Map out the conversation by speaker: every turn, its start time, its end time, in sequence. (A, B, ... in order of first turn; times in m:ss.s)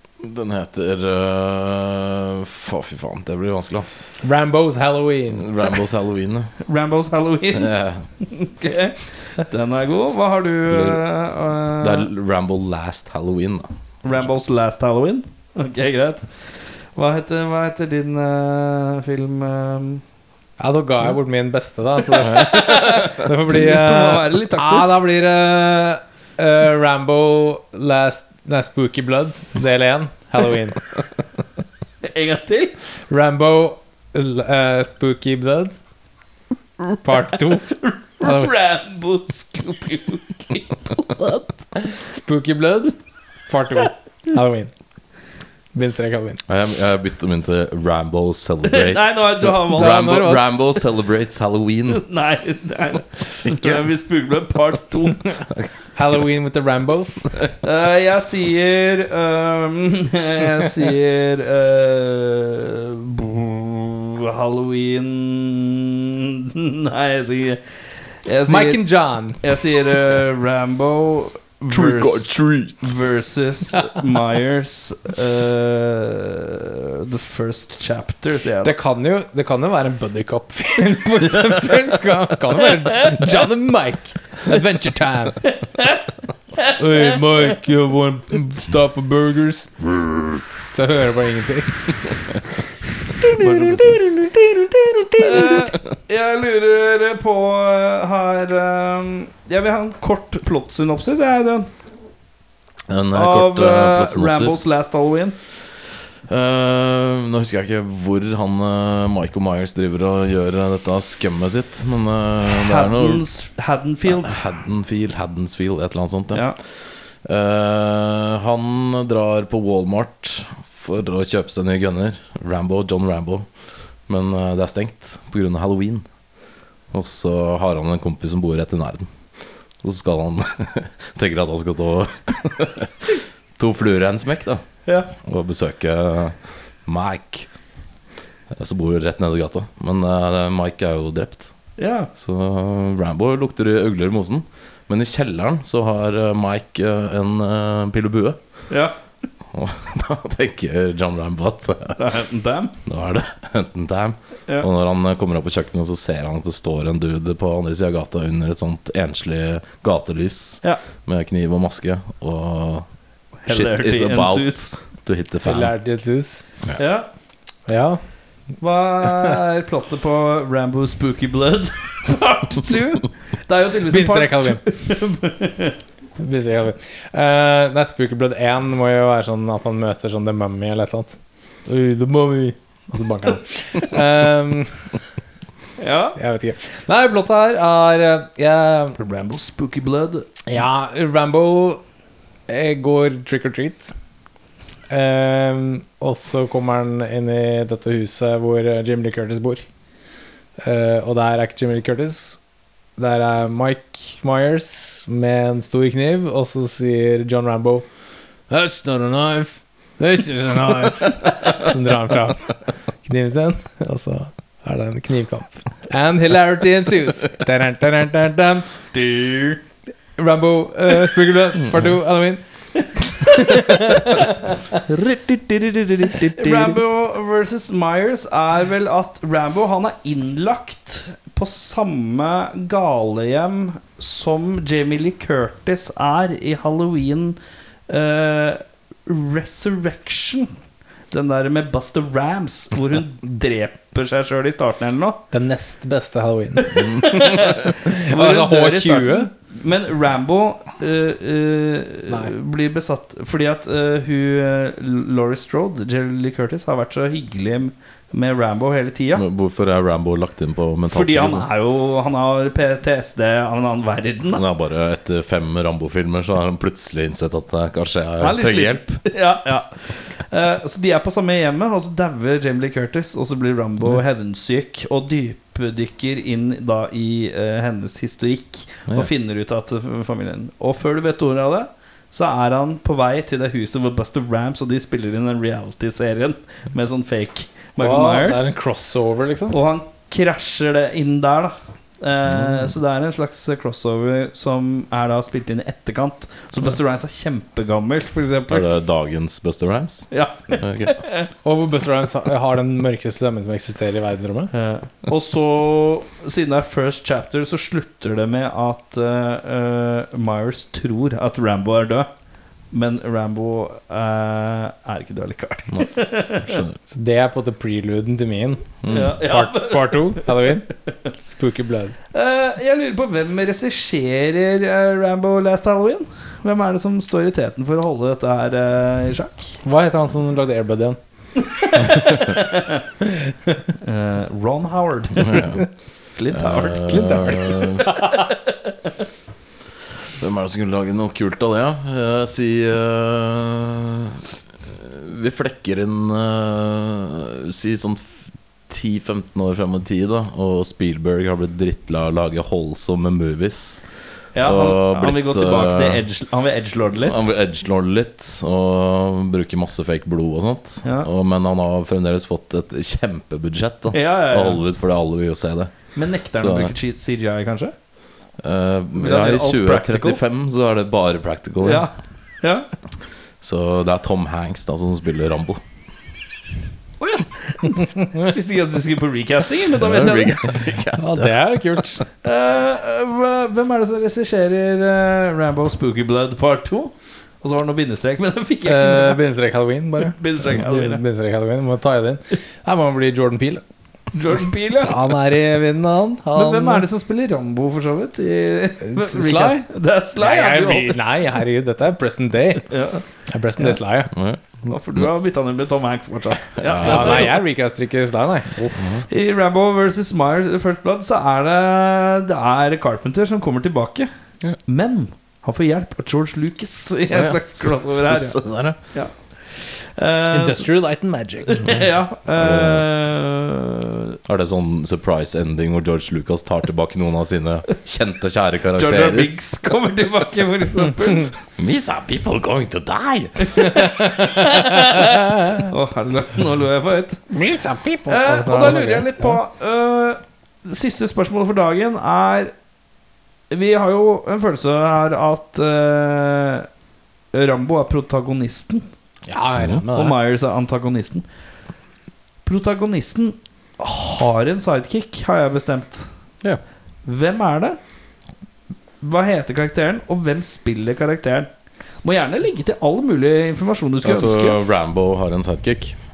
0:00.2-0:04.1 A
0:04.2-0:05.5 B
0:05.3-0:06.5 A
0:06.6-0:12.1 C
0:07.5-0:08.0 A
0:10.7-0:11.0 A
0:11.8-0:13.7 A
0:14.0-0:16.3 C
0:16.9-0:20.0 C
0:20.6-0:30.8 B
0:22.1-0:25.0 C
0:32.0-0:32.8 C
0:33.1-0:35.8 B
0:37.0-0:37.7 B
0:37.6-0:41.6 C
0:38.2-0:38.5 B
0:42.0-0:42.9 B
0:43.5-0:44.7 B
0:45.7-0:46.4 B
0:46.5-0:52.0 A
0:48.6-0:50.2 C
0:49.7-0:50.6 B
0:51.9-0:55.3 C
0:53.4-0:53.8 A
0:56.0-0:57.3 B
0:57.6-1:07.6 C
1:08.2-1:08.8 C
1:08.5-1:09.4 B
1:09.4-1:18.7 C
1:11.7-1:12.9 A
1:18.6-1:25.4 B
1:26.8-1:29.8 B
1:30.7-1:31.8 B
1:33.2-1:35.7 B
1:33.3-1:34.0 C
1:35.2-1:41.7 C
1:42.9-1:44.7 A
1:43.1-1:45.4 C
1:46.3-1:53.2 A
1:52.5-1:54.4 C
1:54.1-1:56.5 A
1:57.2-2:03.4 A
2:04.1-2:06.0 A
2:06.9-2:09.1 A
2:09.8-2:14.6 A
2:14.8-2:15.1 C
2:15.2-2:17.5 A
2:18.5-2:21.5 A
2:21.8-2:22.1 C
2:22.1-2:28.4 A
2:28.7-2:29.0 C
2:29.5-2:32.0 A
2:32.0-2:32.7 C
2:32.8-2:42.8 A
2:43.4-2:44.7 C
2:43.5-2:45.7 A
2:45.4-2:46.4 B
2:46.8-2:47.1 C
2:47.6-2:48.0 B
2:48.6-2:55.8 C
2:53.9-2:54.6 B
2:56.2-3:04.9 B
3:05.8-3:06.2 C
3:06.2-3:09.0 B
3:09.0-3:10.3 C
3:10.4-3:11.8 B
3:12.5-3:13.9 B
3:14.9-3:19.6 B
3:20.6-3:22.4 B
3:23.0-3:27.8 B
3:28.5-3:32.5 B
3:33.0-3:38.7 B
3:38.9-3:39.6 C
3:40.2-3:42.4 B
3:42.8-3:44.5 C
3:43.2-3:44.3 B
3:45.5-3:57.4 C
3:57.9-4:00.5 C
4:01.1-4:05.2 C
4:05.3-4:06.8 B
4:06.6-4:19.2 C
4:07.8-4:09.3 B
4:19.1-4:21.5 A
4:20.9-4:24.4 C
4:24.3-4:29.0 A
4:28.2-4:48.5 C
4:47.8-4:49.6 B
4:49.5-4:58.7 C
4:52.4-4:52.7 A
4:58.5-5:01.0 A
5:00.1-5:01.3 C
5:01.4-5:04.5 B
5:04.5-5:12.1 C
5:12.7-5:16.6 C
5:15.7-5:16.8 A
5:16.9-5:21.9 B
5:18.8-5:19.2 A
5:18.9-5:20.5 C
5:22.1-5:29.5 C
5:29.6-5:31.0 B
5:31.4-5:32.8 C
5:33.0-5:33.3 B
5:33.8-5:35.6 C
5:35.2-5:35.6 A
5:36.1-5:37.2 C
5:36.3-5:37.9 A
5:36.9-5:37.6 B
5:37.8-5:38.5 C
5:40.2-5:48.1 A
5:48.7-5:53.8 A
5:54.3-5:57.2 C
5:54.4-5:56.0 A
5:57.0-6:06.7 A
6:00.8-6:01.1 C
6:03.9-6:04.6 C
6:05.9-6:07.7 C
6:08.4-6:11.9 A
6:09.0-6:10.2 C
6:11.6-6:12.7 C
6:13.4-6:15.6 A
6:17.0-6:20.4 C
6:19.7-6:21.4 A
6:21.0-6:22.0 B
6:22.2-6:29.2 C
6:28.6-6:33.6 B
6:30.0-6:31.0 C
6:34.1-6:35.1 C
6:34.8-6:36.8 B
6:36.3-6:41.0 C
6:38.8-6:39.6 B
6:40.2-6:42.7 B
6:42.7-6:43.0 C
6:43.3-6:44.1 B
6:44.1-6:45.2 A
6:44.6-6:47.4 C
6:46.6-6:47.4 A
6:46.8-6:49.0 B
6:49.1-6:54.1 C
6:54.6-7:00.7 C
6:57.1-6:58.8 A
7:00.3-7:01.6 B
7:01.4-7:04.2 C
7:02.3-7:02.8 A
7:04.2-7:09.3 A
7:08.8-7:11.3 C
7:11.6-7:13.9 A
7:13.4-7:17.2 C
7:17.3-7:19.4 B
7:18.1-7:22.5 C
7:23.5-7:26.7 C
7:27.3-7:28.9 C
7:29.3-7:30.2 B
7:29.6-7:29.8 A
7:29.9-7:31.2 C
7:32.4-7:36.1 C
7:37.0-7:37.8 C
7:39.0-7:41.5 C
7:42.0-7:44.6 C
7:44.0-7:46.0 A